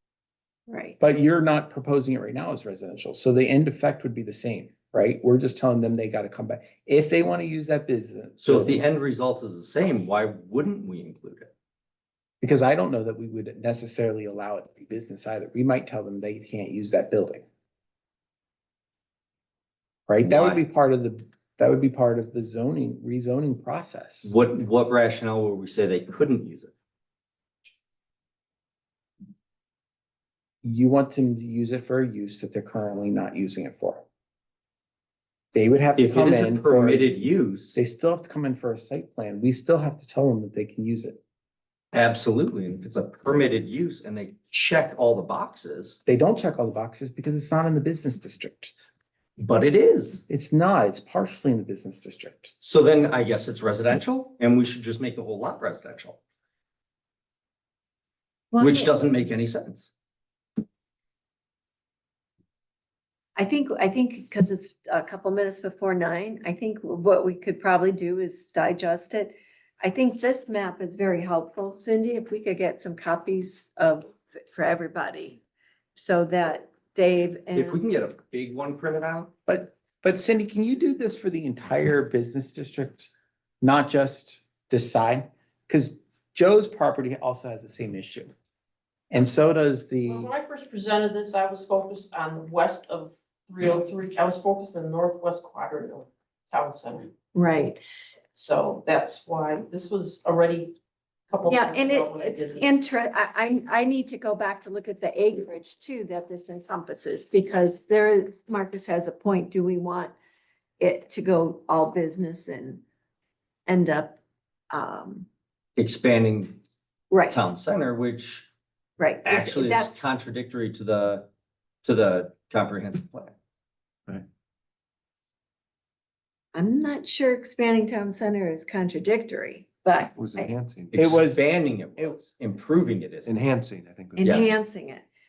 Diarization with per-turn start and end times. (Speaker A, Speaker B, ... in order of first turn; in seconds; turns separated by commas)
Speaker A: 0.7-1.0, Speaker B: 1.0-8.9, Speaker C: 8.4-11.5, Speaker B: 12.4-17.4, Speaker B: 20.1-24.3, Speaker C: 20.2-20.6, Speaker C: 24.2-26.7, Speaker B: 30.6-34.0, Speaker B: 35.5-37.2, Speaker C: 36.0-37.8, Speaker B: 37.7-41.2, Speaker C: 41.9-46.0, Speaker B: 46.0-48.7, Speaker C: 49.4-50.2, Speaker B: 50.3-52.5, Speaker C: 52.6-56.2, Speaker A: 58.5-58.9, Speaker C: 58.6-59.9, Speaker A: 63.4-75.4, Speaker A: 75.9-77.8, Speaker C: 77.5-79.3, Speaker B: 79.5-83.1, Speaker B: 83.6-88.3, Speaker B: 89.1-90.3, Speaker D: 90.0-97.1, Speaker A: 97.3-97.8, Speaker D: 98.3-100.8, Speaker D: 101.3-102.8, Speaker A: 101.5-110.1, Speaker A: 110.8-112.8, Speaker A: 113.7-114.2, Speaker A: 114.7-115.3, Speaker C: 115.8-116.6, Speaker A: 117.1-117.4, Speaker C: 117.3-118.5, Speaker A: 119.0-120.1, Speaker C: 119.2-121.3, Speaker C: 121.8-123.3, Speaker A: 126.5-130.5, Speaker E: 130.1-131.2, Speaker C: 130.9-133.3, Speaker B: 130.9-131.4, Speaker E: 133.2-134.6, Speaker A: 134.2-135.0, Speaker C: 134.2-134.5